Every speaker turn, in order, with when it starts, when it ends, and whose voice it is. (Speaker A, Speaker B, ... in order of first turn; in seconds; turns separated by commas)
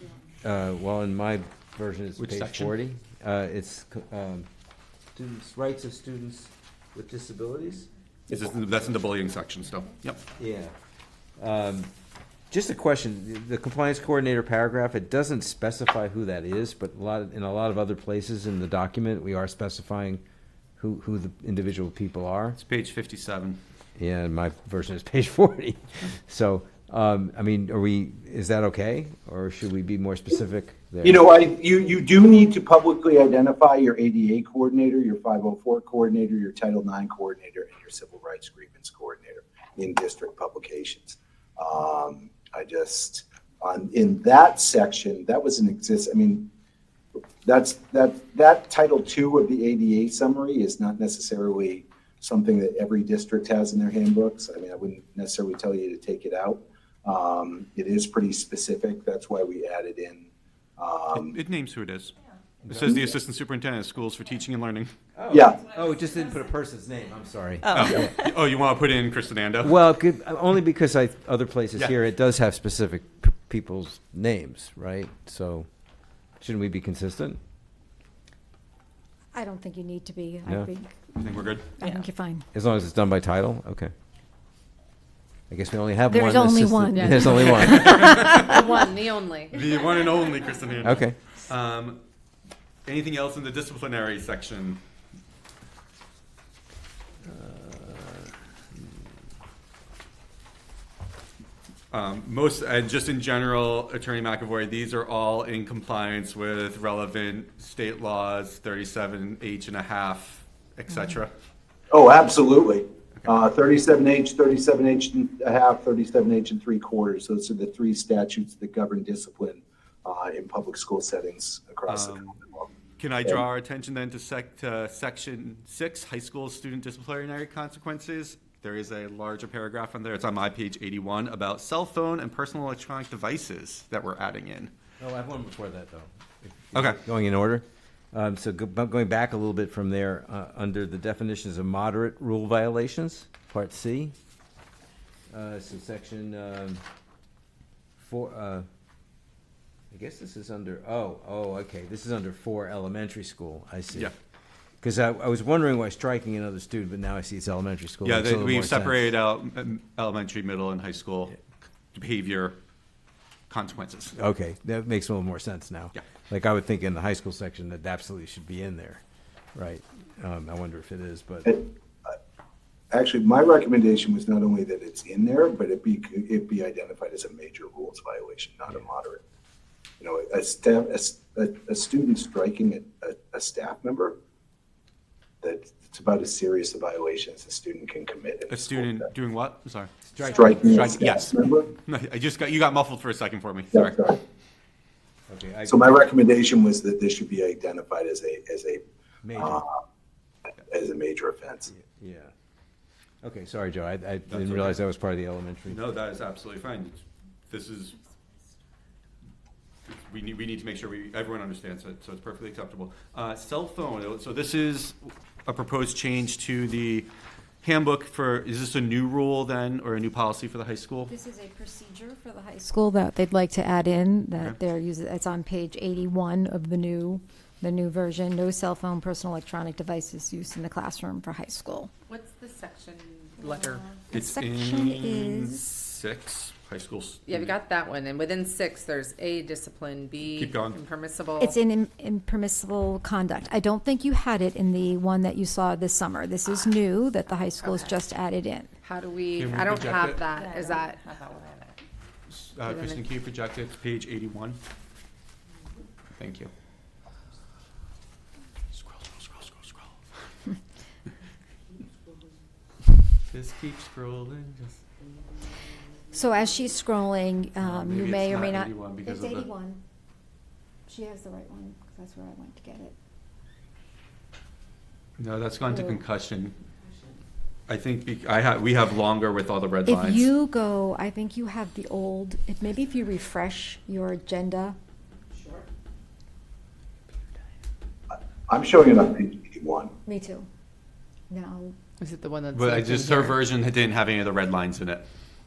Speaker A: 0.4-4.5, Speaker B: 2.2-2.7, Speaker A: 5.1-7.9, Speaker B: 8.3-10.2, Speaker A: 10.3-10.7, Speaker A: 11.4-11.9, Speaker A: 12.5-20.2, Speaker A: 20.8-22.6, Speaker B: 22.6-23.6, Speaker A: 24.0-31.3, Speaker C: 31.0-46.5, Speaker C: 47.4-61.3, Speaker B: 61.1-62.1, Speaker A: 62.6-63.0, Speaker B: 62.7-64.9, Speaker A: 65.1-68.1, Speaker C: 65.3-65.6, Speaker B: 67.7-69.8, Speaker A: 69.6-75.7, Speaker A: 76.4-77.4, Speaker D: 79.3-81.0, Speaker B: 81.2-81.7, Speaker D: 81.8-82.4, Speaker A: 82.5-83.9, Speaker A: 85.5-88.3, Speaker D: 86.1-88.5, Speaker B: 87.4-88.7, Speaker E: 88.4-89.9, Speaker B: 89.5-92.0, Speaker A: 90.8-91.2, Speaker B: 92.8-94.8, Speaker A: 97.2-98.3, Speaker B: 101.9-111.3, Speaker C: 111.9-122.7, Speaker B: 121.9-122.4, Speaker B: 123.0-134.7, Speaker A: 135.0-144.1, Speaker B: 136.7-137.0, Speaker A: 145.3-146.8, Speaker A: 148.0-148.7, Speaker A: 149.9-154.1, Speaker A: 154.8-159.1, Speaker B: 158.0-161.3, Speaker B: 161.9-162.6, Speaker B: 163.5-164.2, Speaker A: 164.1-169.0, Speaker A: 169.5-171.6, Speaker C: 171.4-172.1, Speaker C: 172.9-179.2, Speaker C: 180.0-184.1, Speaker C: 185.4-189.1, Speaker B: 188.5-189.9, Speaker A: 190.1-191.1, Speaker C: 190.2-191.7, Speaker B: 190.5-193.9, Speaker C: 193.7-194.2, Speaker A: 195.3-196.0, Speaker C: 195.6-198.8, Speaker A: 199.2-199.6, Speaker C: 199.3-199.7, Speaker C: 200.7-201.7, Speaker A: 201.7-202.3, Speaker A: 203.2-205.8, Speaker B: 204.3-204.8, Speaker B: 205.7-207.9, Speaker B: 209.8-217.1, Speaker B: 217.6-221.1, Speaker D: 221.1-231.9, Speaker E: 232.1-234.0, Speaker D: 233.4-235.7, Speaker B: 234.1-237.6, Speaker E: 237.3-241.6, Speaker B: 240.2-240.8, Speaker D: 241.4-248.7, Speaker E: 247.4-248.0, Speaker E: 248.8-251.8, Speaker B: 249.3-250.2, Speaker D: 250.4-250.7, Speaker B: 252.3-254.6, Speaker E: 252.6-253.0, Speaker B: 256.2-256.5, Speaker B: 258.7-259.9, Speaker B: 263.3-264.8, Speaker D: 266.1-269.8, Speaker B: 267.6-269.5, Speaker D: 270.9-272.9, Speaker B: 275.2-276.6, Speaker D: 275.7-276.0, Speaker B: 277.7-280.3, Speaker D: 279.9-284.8, Speaker C: 288.5-289.9, Speaker D: 290.1-290.5, Speaker D: 291.3-291.8, Speaker E: 292.0-293.4, Speaker B: 292.5-295.0